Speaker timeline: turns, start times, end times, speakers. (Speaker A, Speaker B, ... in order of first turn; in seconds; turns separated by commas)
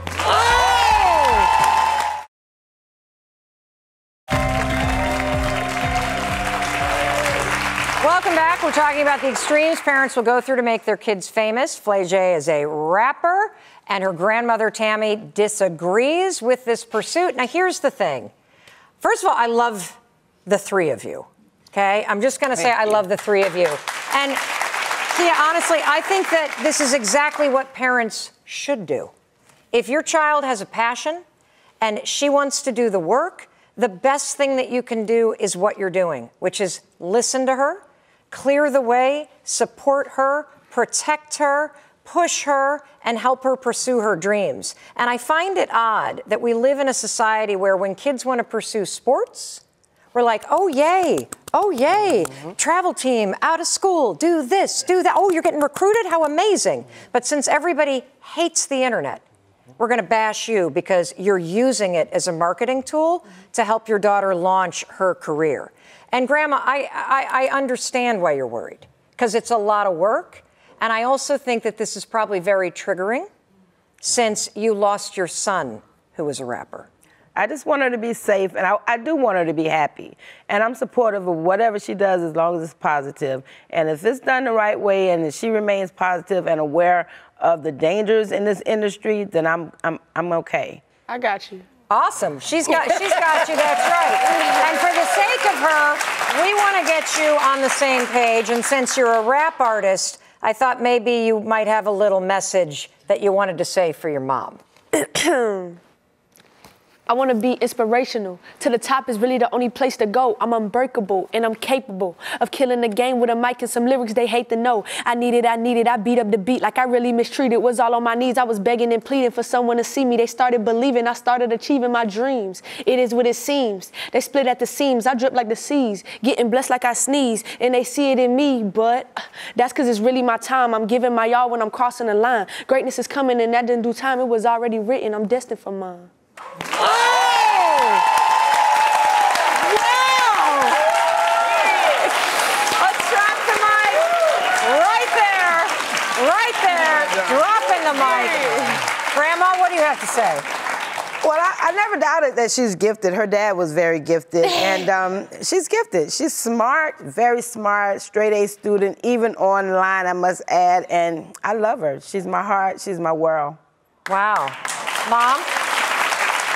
Speaker A: 0.3-1.4, Speaker A: 8.0-18.3, Speaker A: 19.0-29.1, Speaker A: 29.7-31.2, Speaker A: 31.8-49.6, Speaker A: 50.1-59.2, Speaker A: 59.8-73.3, Speaker A: 74.0-76.9, Speaker B: 77.4-90.8, Speaker C: 91.1-91.7, Speaker A: 91.9-104.6, Speaker C: 94.3-94.7, Speaker C: 104.9-105.8, Speaker C: 107.1-136.1, Speaker A: 136.8-138.0, Speaker A: 139.6-140.8, Speaker C: 141.1-142.1, Speaker A: 142.8-150.5, Speaker B: 151.2-163.6, Speaker C: 154.5-154.9, Speaker A: 164.1-165.5